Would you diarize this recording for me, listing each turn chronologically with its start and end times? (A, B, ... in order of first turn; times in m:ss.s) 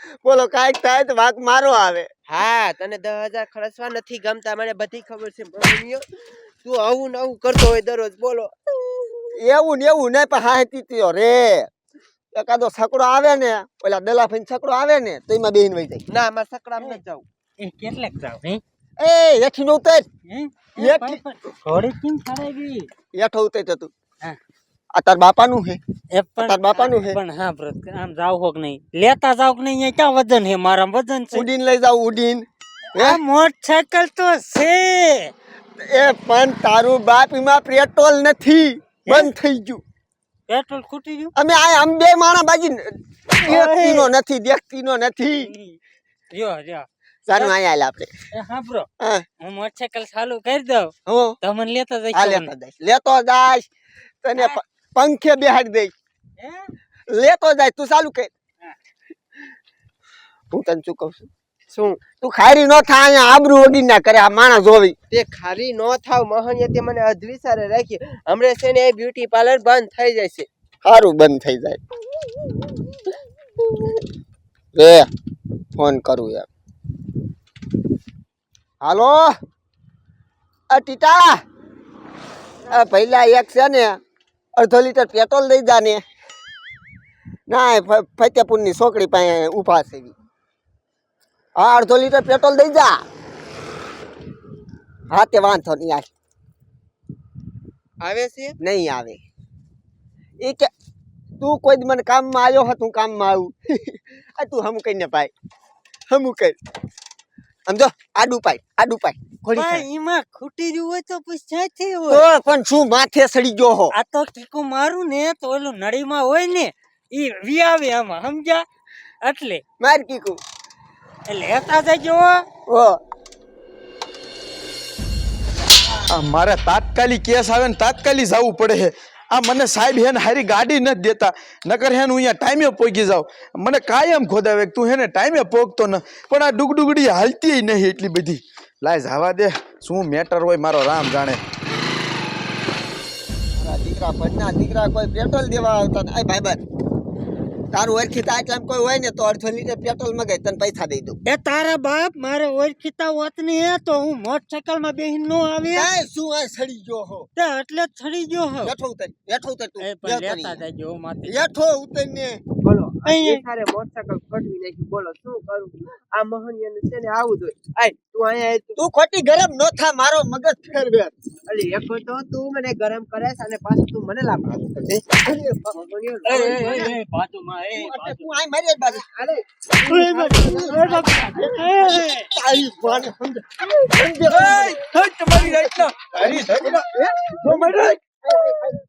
0:00.2-0:02.1 A
0:02.3-0:06.1 B
0:06.6-0:09.2 B
0:09.4-0:11.7 A
0:12.3-0:16.0 A
0:16.1-0:17.2 B
0:17.6-0:18.6 C
0:19.0-0:20.0 A
0:20.3-0:22.9 C
0:20.8-0:21.2 A
0:23.1-0:23.9 A
0:24.9-0:25.8 A
0:26.1-0:31.5 C
0:26.4-0:27.2 A
0:31.3-0:33.2 A
0:32.9-0:35.3 C
0:35.8-0:39.8 A
0:39.1-0:39.3 C
0:40.5-0:41.3 C
0:41.4-0:45.5 A
0:43.4-0:44.1 C
0:45.4-0:45.8 C
0:46.3-0:47.6 C
0:47.3-0:48.1 A
0:48.3-0:48.9 C
0:49.0-0:49.2 A
0:49.4-0:52.5 C
0:51.1-0:51.4 A
0:52.1-0:53.7 A
0:54.2-0:55.9 A
0:56.4-0:56.7 C
0:57.1-0:58.3 A
1:00.5-1:01.3 A
1:01.7-1:02.0 B
1:02.2-1:05.0 A
1:05.1-1:10.5 B
1:10.8-1:11.8 A
1:13.6-1:14.0 A
1:14.8-1:15.1 A
1:15.8-1:16.5 A
1:18.8-1:19.3 A
1:20.7-1:21.4 A
1:22.7-1:24.0 A
1:24.6-1:26.0 A
1:27.5-1:30.1 A
1:31.6-1:33.0 A
1:35.1-1:36.1 A
1:38.0-1:38.6 B
1:38.6-1:39.2 A
1:40.4-1:40.7 A
1:41.4-1:45.3 A
1:46.1-1:46.6 A
1:47.7-1:49.9 A
1:49.5-1:52.2 C
1:52.1-1:53.9 A
1:53.9-1:58.7 C
1:59.2-1:59.6 C
1:59.8-2:00.4 A
2:01.3-2:02.4 C
2:02.7-2:03.0 A
2:06.1-2:21.4 D
2:23.6-2:26.6 A
2:27.7-2:31.2 A
2:31.2-2:35.9 C
2:35.7-2:37.3 A
2:37.4-2:38.7 C
2:38.6-2:40.6 A
2:39.8-2:41.4 C
2:41.2-2:42.4 A
2:42.6-2:48.8 B
2:43.1-2:43.4 C
2:48.8-2:51.1 A
2:51.5-2:54.7 B
2:54.5-2:55.6 A
2:55.6-2:56.9 B
2:56.3-2:58.2 D
2:57.7-2:59.1 A
2:59.0-3:01.6 B
3:00.1-3:00.5 D
3:00.3-3:04.8 A
3:00.6-3:02.2 C
3:04.3-3:08.0 D
3:06.9-3:07.7 B
3:08.3-3:08.7 A